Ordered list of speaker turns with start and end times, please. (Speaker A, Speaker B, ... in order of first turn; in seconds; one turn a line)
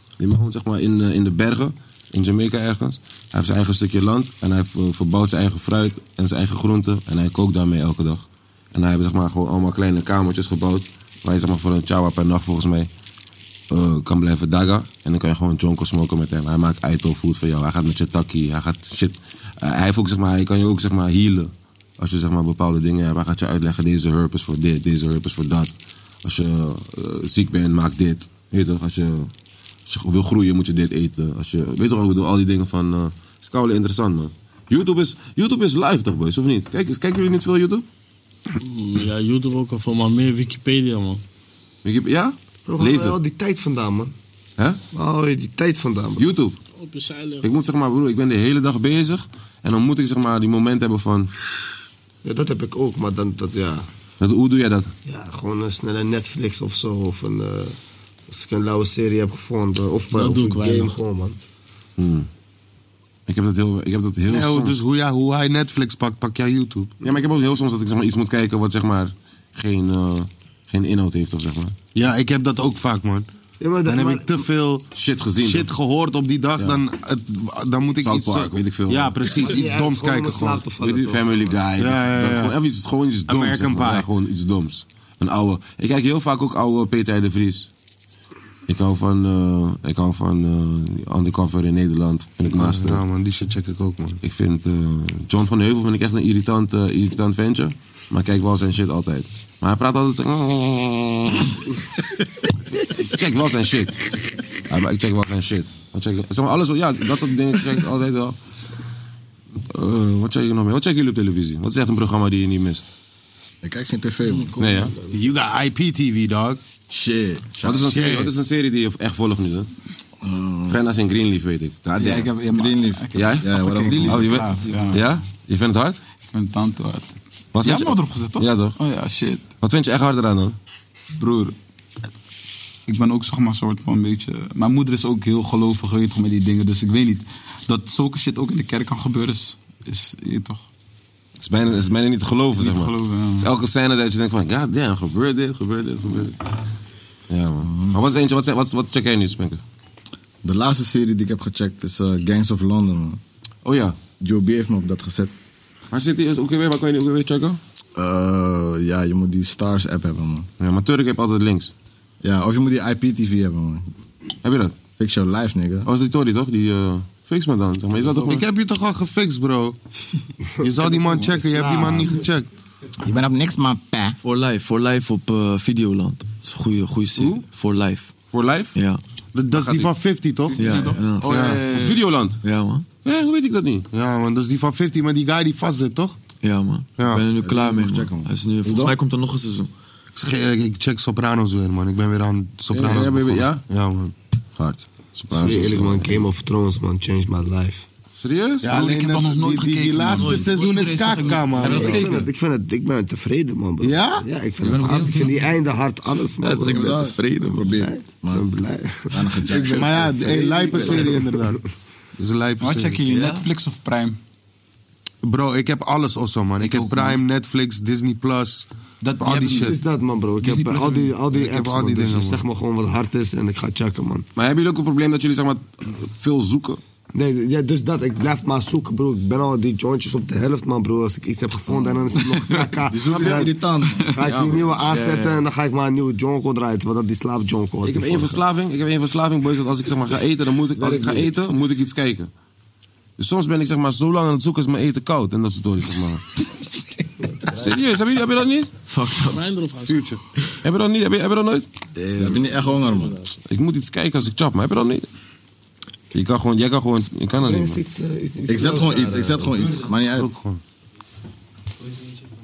Speaker A: 0.2-12.9
Speaker A: 13.7-25.7
Speaker A: 26.2-29.3
Speaker A: 29.9-37.9
Speaker B: 38.6-41.2
Speaker A: 41.9-43.2
Speaker C: 42.7-44.1
Speaker C: 44.9-46.3
Speaker A: 46.2-46.6
Speaker B: 46.8-47.5
Speaker A: 47.4-51.3
Speaker C: 52.2-53.9
Speaker A: 54.2-54.9
Speaker C: 55.0-57.8
Speaker C: 58.3-61.4
Speaker B: 60.1-60.9
Speaker A: 62.0-62.3
Speaker A: 63.3-64.8
Speaker D: 64.3-66.9
Speaker A: 67.0-71.8
Speaker D: 72.0-73.3
Speaker C: 73.6-74.5
Speaker D: 73.8-74.9
Speaker A: 74.9-75.7
Speaker D: 75.4-80.6
Speaker A: 78.0-79.1
Speaker C: 79.3-81.6
Speaker A: 80.8-87.7
Speaker D: 81.8-82.6
Speaker D: 83.3-84.1
Speaker A: 88.7-93.0
Speaker D: 92.5-94.2
Speaker A: 94.2-101.5
Speaker A: 102.8-104.1
Speaker A: 104.7-108.4
Speaker A: 109.7-112.9
Speaker E: 113.6-114.5
Speaker A: 114.6-114.9
Speaker D: 115.1-116.6
Speaker E: 116.9-117.8
Speaker A: 117.6-119.7
Speaker D: 117.7-118.3
Speaker E: 120.2-120.8
Speaker A: 120.7-122.3
Speaker F: 122.0-125.1
Speaker E: 122.5-124.4
Speaker A: 123.1-123.5
Speaker A: 124.0-126.0
Speaker G: 124.5-125.0
Speaker F: 126.3-129.4
Speaker A: 127.5-128.8
Speaker A: 129.6-130.6
Speaker F: 131.2-131.6
Speaker F: 132.9-140.7
Speaker A: 141.4-146.4
Speaker F: 142.6-143.5
Speaker A: 147.3-149.6
Speaker E: 147.6-148.0
Speaker E: 150.4-153.2
Speaker A: 153.7-154.0
Speaker E: 154.2-155.3
Speaker A: 155.9-157.6
Speaker E: 158.0-160.5
Speaker A: 160.6-161.7
Speaker E: 162.2-163.9
Speaker A: 164.4-164.8
Speaker E: 165.0-165.9
Speaker A: 165.8-168.4
Speaker D: 168.1-169.8
Speaker C: 170.6-172.3
Speaker D: 170.6-172.5
Speaker E: 173.0-174.2
Speaker G: 174.2-178.1
Speaker A: 177.2-177.4
Speaker A: 178.3-178.7
Speaker G: 178.8-179.0
Speaker D: 179.3-181.6
Speaker A: 179.5-179.9
Speaker F: 180.6-182.0
Speaker G: 180.6-181.6
Speaker A: 181.7-182.4
Speaker G: 182.4-182.9
Speaker A: 183.0-183.9
Speaker D: 183.9-186.2
Speaker G: 186.4-189.7
Speaker D: 187.0-187.2
Speaker E: 187.3-188.9
Speaker D: 190.2-194.1
Speaker A: 192.7-193.6
Speaker A: 194.6-196.3
Speaker C: 195.3-197.9
Speaker A: 198.2-198.7
Speaker D: 198.6-202.1
Speaker F: 198.7-201.3
Speaker G: 200.1-201.9
Speaker C: 201.6-207.1
Speaker A: 201.6-202.2
Speaker D: 203.8-204.3
Speaker F: 204.6-205.4
Speaker G: 206.4-207.7
Speaker E: 206.7-208.5
Speaker C: 207.8-211.6
Speaker E: 209.1-210.1
Speaker D: 209.5-211.6
Speaker D: 212.2-213.0
Speaker F: 212.6-214.2
Speaker G: 213.1-213.5
Speaker D: 215.2-219.8
Speaker F: 216.6-217.2
Speaker F: 219.0-219.8
Speaker C: 219.4-224.3
Speaker F: 220.4-221.2
Speaker D: 221.3-222.4
Speaker A: 224.4-226.8
Speaker C: 227.1-238.4
Speaker E: 232.8-234.7
Speaker A: 233.1-233.4
Speaker G: 234.8-235.4
Speaker A: 237.8-242.3
Speaker C: 240.8-241.3
Speaker A: 243.2-246.2
Speaker A: 247.5-248.7
Speaker G: 248.9-249.4
Speaker B: 249.3-250.0
Speaker D: 249.9-250.2
Speaker A: 250.6-251.7
Speaker E: 252.1-253.2
Speaker A: 253.5-255.1
Speaker A: 256.1-257.8
Speaker C: 257.4-259.9
Speaker E: 258.5-260.3
Speaker D: 260.1-260.6